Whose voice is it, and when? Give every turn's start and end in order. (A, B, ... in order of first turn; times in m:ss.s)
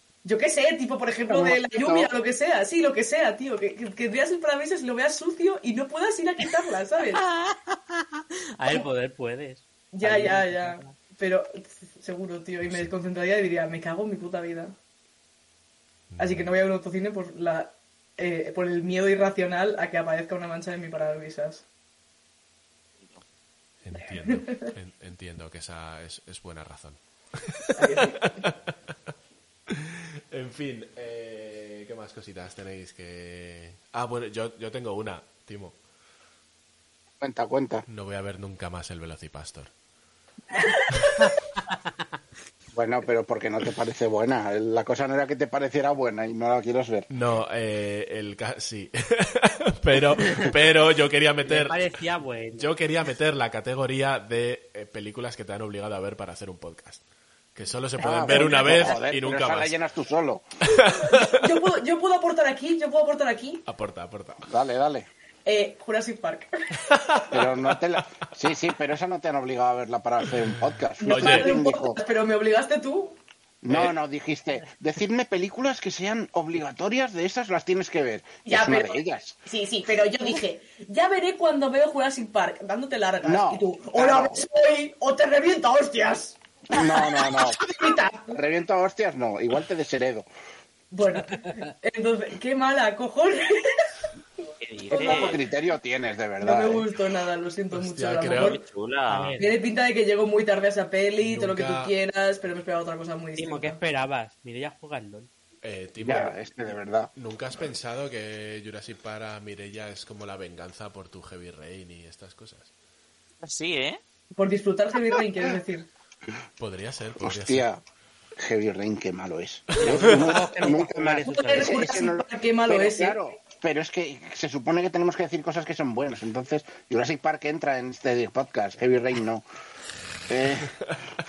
0:00.2-0:07.2 A
0:01.4-0:02.1 B
0:07.2-0:11.0 C
0:09.9-0:14.8 A
0:12.6-0:12.9 D
0:16.1-0:16.5 D
0:16.2-0:21.6 A
0:23.8-0:28.7 D
0:24.2-0:24.6 A
0:27.8-0:28.3 A
0:29.7-0:35.8 D
0:37.2-0:37.8 B
0:37.9-0:39.7 D
0:40.5-0:40.9 A
0:40.9-0:41.3 D
0:42.7-0:47.1 B
0:47.1-0:51.9 D
0:50.2-0:50.6 C
0:51.4-0:52.7 C
0:52.6-0:57.0 D
0:57.6-0:59.8 D
0:58.0-1:00.4 B
0:58.2-0:58.9 C
1:00.6-1:01.5 D
1:00.8-1:03.6 A
1:03.7-1:04.5 D
1:04.5-1:05.1 B
1:05.5-1:07.0 A
1:06.8-1:07.4 D
1:07.3-1:12.0 B
1:10.4-1:11.5 D
1:11.0-1:13.2 A
1:13.6-1:19.4 B
1:13.7-1:13.9 D
1:18.5-1:28.4 A
1:23.2-1:24.5 B
1:26.7-1:27.7 B
1:28.3-1:30.3 B
1:30.9-1:33.9 A
1:34.4-1:35.4 A
1:34.6-1:35.4 E
1:34.9-1:36.9 B
1:36.4-1:38.6 A
1:37.7-1:38.6 D
1:38.4-1:39.4 E
1:39.1-1:39.5 C
1:39.4-1:43.8 A
1:41.2-1:41.9 D
1:43.4-1:45.3 C
1:45.6-1:46.3 D
1:46.0-1:47.1 B
1:47.2-1:52.7 D
1:53.4-1:54.0 E
1:54.4-1:55.9 A
1:56.6-1:57.7 D
1:57.2-1:57.8 B
1:58.4-2:09.4 B
1:59.7-2:00.2 D
1:59.8-2:01.9 C
2:01.3-2:03.3 A
2:10.3-2:10.7 B